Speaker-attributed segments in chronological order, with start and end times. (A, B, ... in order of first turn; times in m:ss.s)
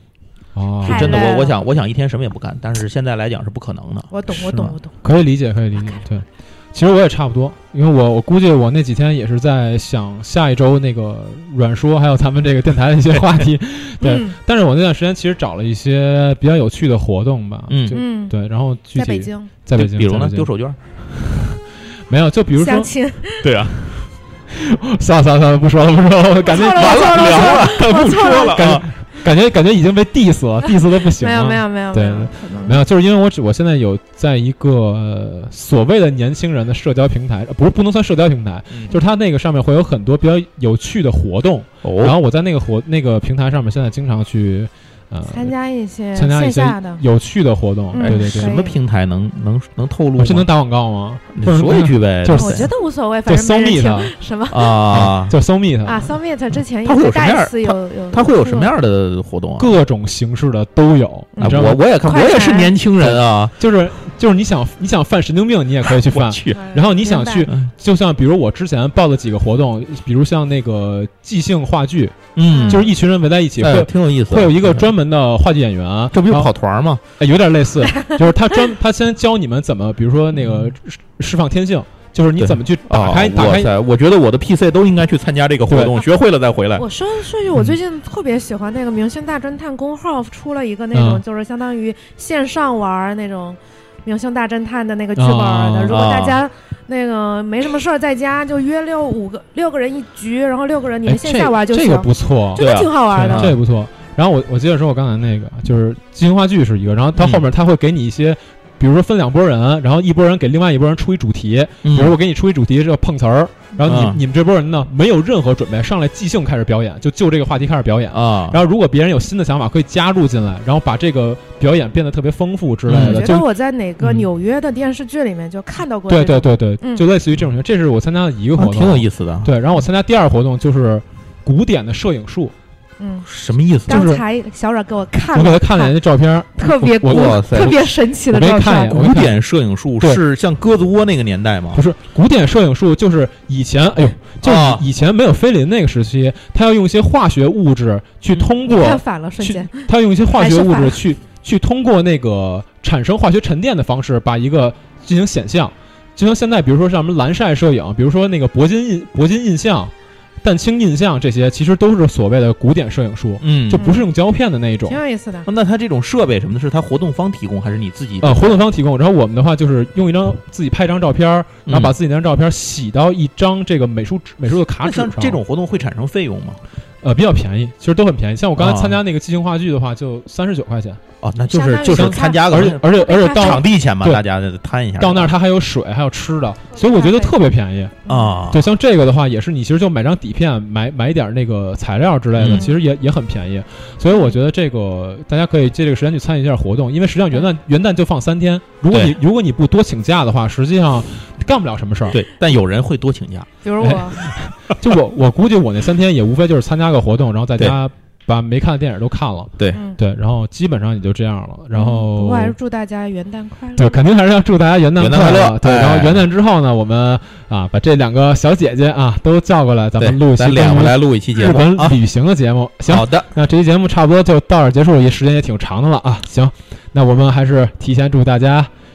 0:00.6-0:01.2 A
0:00.8-0:01.6 B
0:00.8-0:04.1 C
0:04.1-0:04.9 B
0:04.5-0:20.5 A
0:14.0-0:14.4 B
0:17.7-0:18.0 C
0:17.9-0:18.4 B
0:18.9-0:19.5 B
0:19.7-0:20.8 C
0:21.1-0:22.9 A
0:22.6-0:23.6 B
0:23.4-0:24.1 C
0:24.5-0:45.5 A
0:26.4-0:28.7 B
0:26.8-0:28.9 C
0:30.9-0:32.8 B
0:38.7-0:39.0 C
0:41.8-0:42.2 C
0:45.3-0:47.0 B
0:46.2-0:48.6 A
0:47.9-0:48.8 B
0:48.0-0:50.5 C
0:50.2-0:52.7 A
0:51.3-0:52.7 C
0:52.3-0:54.8 B
0:53.3-0:54.1 A
0:54.5-0:55.3 C
0:54.9-0:56.1 A
0:55.8-0:58.7 B
0:56.8-0:59.7 C
0:59.6-1:01.8 A
1:01.4-1:02.8 B
1:01.4-1:03.6 C
1:03.0-1:16.5 A
1:05.9-1:06.6 C
1:06.5-1:07.5 B
1:12.4-1:12.9 C
1:12.5-1:12.8 B
1:13.6-1:14.9 C
1:16.1-1:17.0 C
1:17.2-1:23.7 A
1:22.4-1:26.8 C
1:25.7-1:26.0 A
1:26.8-1:43.5 B
1:30.9-1:31.2 A
1:35.2-1:36.0 A
1:35.9-1:36.4 C
1:41.1-2:03.4 A
1:42.6-1:43.6 C
1:47.2-1:47.4 C
1:51.8-1:52.1 C
1:53.8-1:54.2 C
1:58.1-1:58.6 C
2:02.9-2:03.3 C
2:02.9-2:07.1 B
2:06.1-2:12.5 A
2:08.6-2:09.6 C
2:13.0-2:13.3 B
2:13.3-2:14.1 C
2:13.9-2:16.0 B
2:13.9-2:14.2 A
2:15.3-2:19.4 A
2:16.6-2:19.0 B
2:17.0-2:17.8 C
2:18.9-2:21.8 C
2:21.7-2:45.0 A
2:24.4-2:24.8 C
2:28.6-2:31.0 B
2:43.4-2:43.9 C
2:43.7-2:44.1 B
2:44.9-2:45.5 B
2:45.5-2:48.6 C
2:48.2-2:55.4 A
2:51.7-2:51.9 C
2:54.8-2:56.6 C
2:57.0-3:01.0 A
2:58.6-2:59.0 C
3:01.2-3:05.3 C
3:01.5-3:03.6 B
3:01.9-3:04.2 A
3:05.0-3:08.0 A
3:06.8-3:07.3 B
3:08.1-3:08.4 B
3:08.1-3:08.6 C
3:08.5-3:22.2 A
3:12.4-3:12.7 C
3:12.5-3:12.8 B
3:14.1-3:14.4 B
3:18.9-3:19.2 C
3:22.1-3:23.5 C
3:23.6-3:24.2 B
3:23.8-3:32.6 A
3:29.7-3:30.0 B
3:31.7-3:34.0 B
3:33.8-3:48.7 A
3:35.0-3:36.2 C
3:40.0-3:42.0 C
3:42.9-3:43.3 C